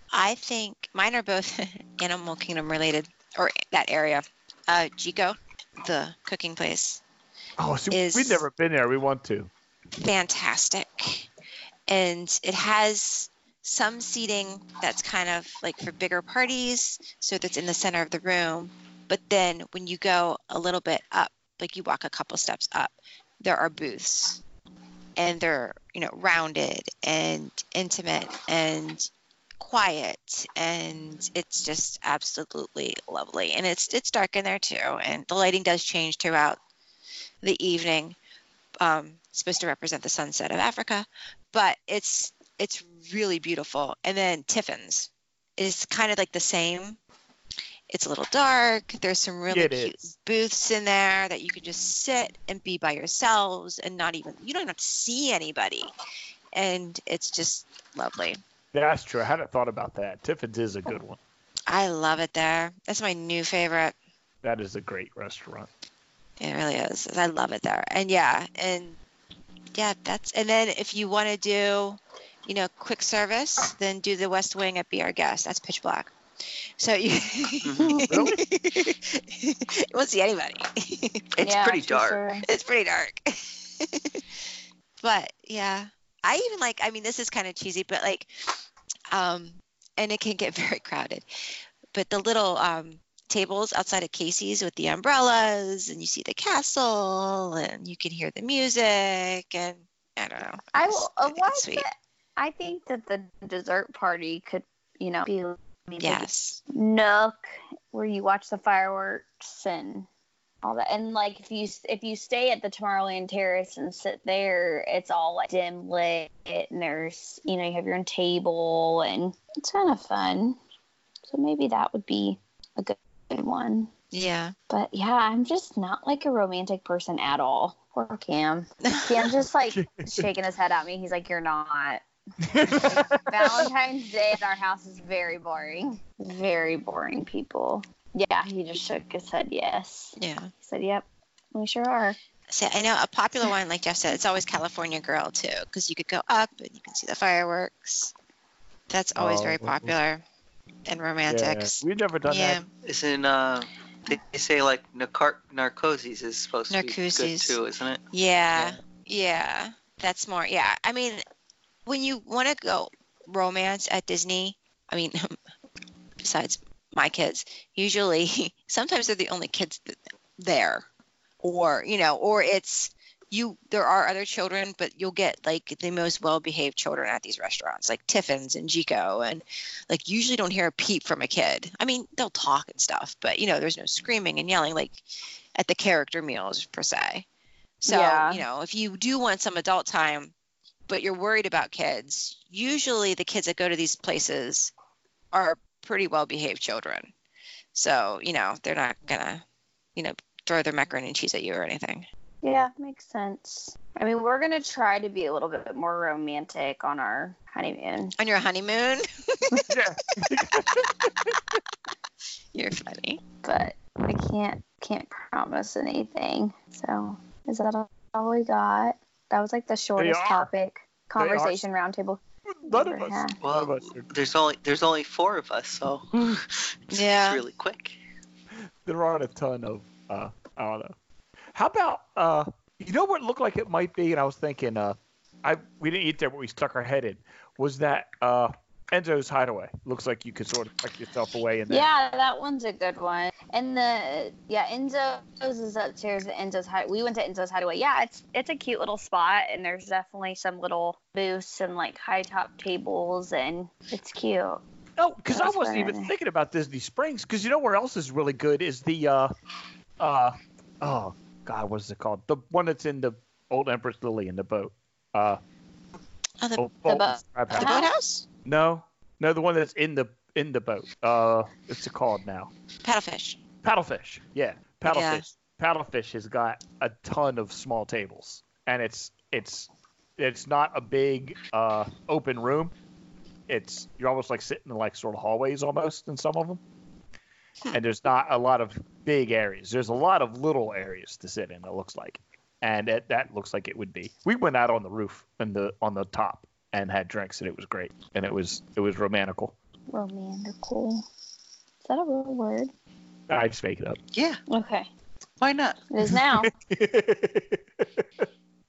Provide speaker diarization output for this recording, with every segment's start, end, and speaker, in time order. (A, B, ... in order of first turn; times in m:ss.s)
0:00.1-0:07.0 A
0:07.6-0:09.5 B
0:07.9-0:08.4 A
0:10.0-0:11.3 A
0:11.9-0:24.4 A
0:25.2-0:36.6 A
0:37.4-0:38.2 A
0:38.8-0:47.0 A
0:47.9-0:55.9 A
0:49.5-0:50.0 B
0:56.5-0:58.4 A
0:58.7-1:01.2 B
1:01.7-1:03.9 A
1:04.4-1:05.7 B
1:06.4-1:09.0 A
1:09.7-1:21.2 A
1:17.6-1:18.0 C
1:17.8-1:18.3 D
1:18.1-1:18.4 B
1:21.3-1:22.2 C
1:21.4-1:22.5 D
1:22.4-1:31.2 A
1:31.9-1:41.8 A
1:40.7-1:47.4 D
1:46.0-1:46.6 A
1:47.9-1:50.1 D
1:50.6-2:00.6 D
2:01.2-2:03.9 D
2:04.1-2:04.5 A
2:04.7-2:12.0 D
2:08.8-2:09.3 A
2:09.7-2:10.3 B
2:12.4-2:13.6 B
2:12.7-2:22.2 D
2:20.2-2:20.5 A
2:22.5-2:28.1 A
2:28.9-2:30.2 A
2:29.2-2:29.9 B
2:30.8-2:32.7 A
2:31.3-2:32.6 B
2:32.8-2:38.0 C
2:36.7-2:37.6 A
2:38.1-2:41.2 A
2:38.5-2:38.8 C
2:41.8-2:45.4 A
2:46.2-2:50.9 A
2:51.4-3:07.2 A
3:07.8-3:10.3 A
3:07.9-3:08.4 D
3:10.9-3:14.7 A
3:15.3-3:17.1 A
3:17.7-3:19.4 A
3:19.9-3:22.0 A
3:22.4-3:28.1 D
3:28.2-3:29.7 A
3:29.7-3:31.6 B
3:32.5-3:33.2 A
3:33.4-3:43.4 D
3:40.0-3:40.5 B
3:41.2-3:41.6 B
3:42.5-3:44.1 B
3:43.4-3:48.0 C
3:46.9-3:47.4 A
3:48.8-3:50.9 B
3:51.5-4:01.9 B
4:01.7-4:14.6 D
4:15.0-4:19.3 B
4:15.3-4:16.1 D
4:20.0-4:25.4 B
4:26.6-4:27.8 B
4:26.8-4:27.9 D
4:27.5-4:28.2 A
4:28.4-4:32.5 B
4:32.8-4:33.4 A
4:33.6-4:42.7 B
4:34.8-4:35.2 A
4:43.5-4:46.6 B
4:47.7-4:59.5 B
4:59.9-5:01.0 D
5:01.8-5:02.7 D
5:03.3-5:04.0 B
5:04.1-5:04.4 C
5:04.5-5:04.9 D
5:05.4-5:05.8 C
5:05.9-5:06.5 D
5:06.0-5:07.6 B